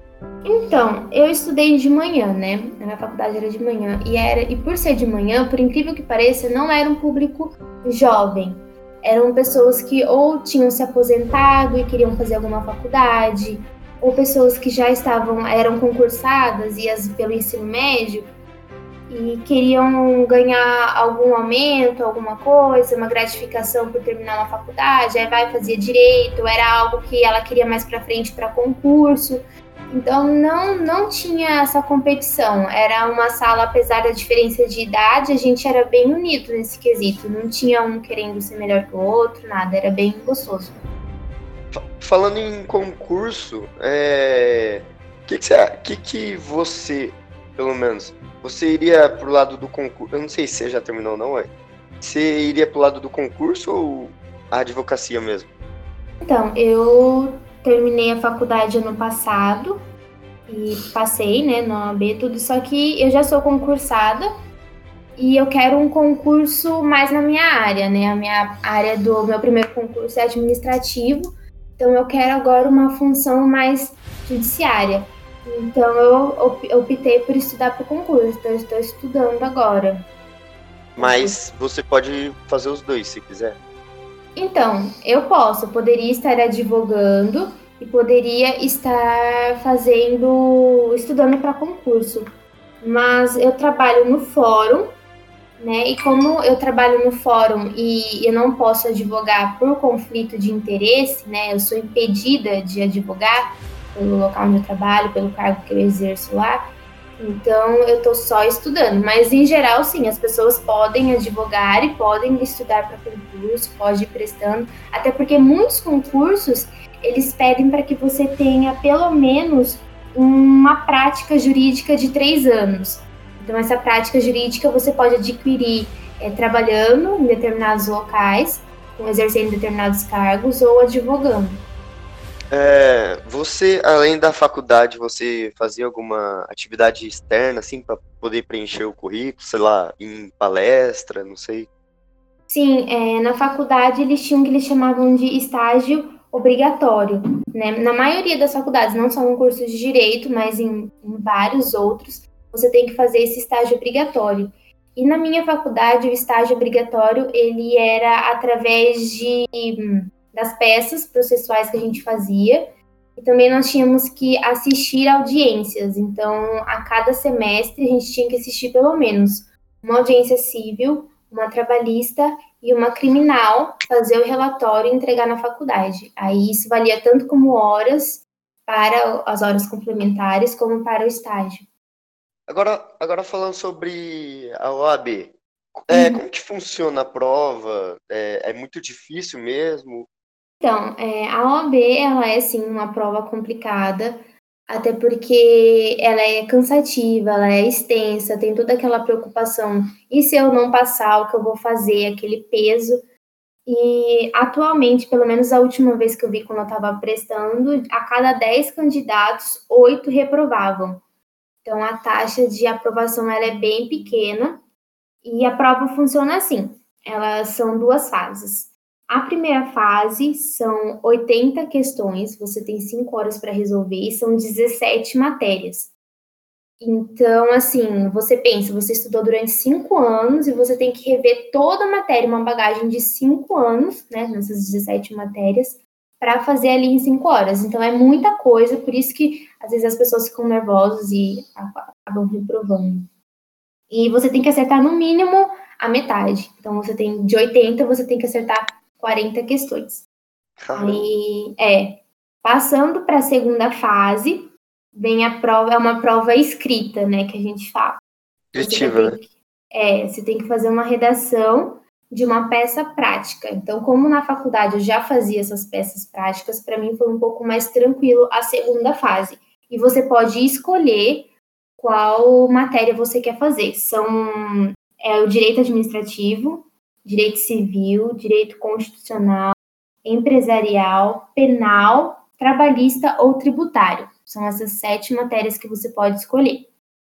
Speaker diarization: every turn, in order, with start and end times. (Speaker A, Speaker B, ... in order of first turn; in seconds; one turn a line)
Speaker A: 0.5-18.3
Speaker A: 19.1-40.8
Speaker B: 41.7-55.5
Speaker A: 56.2-59.8
Speaker A: 60.5-64.3
Speaker A: 65.2-80.1
Speaker B: 81.0-83.6
Speaker A: 81.0-81.4
Speaker A: 84.4-92.3
Speaker A: 92.8-94.9
Speaker A: 95.6-106.6
Speaker A: 107.2-131.6
Speaker B: 132.5-141.7
Speaker A: 142.5-181.7
Speaker B: 182.5-190.1
Speaker A: 185.9-186.2
Speaker A: 190.6-203.0
Speaker A: 203.7-211.0
Speaker A: 211.6-214.6
Speaker A: 215.2-225.9
Speaker A: 226.8-243.1
Speaker A: 243.9-250.1
Speaker B: 250.6-251.1
Speaker A: 250.8-258.0
Speaker B: 258.5-259.2
Speaker A: 258.6-286.7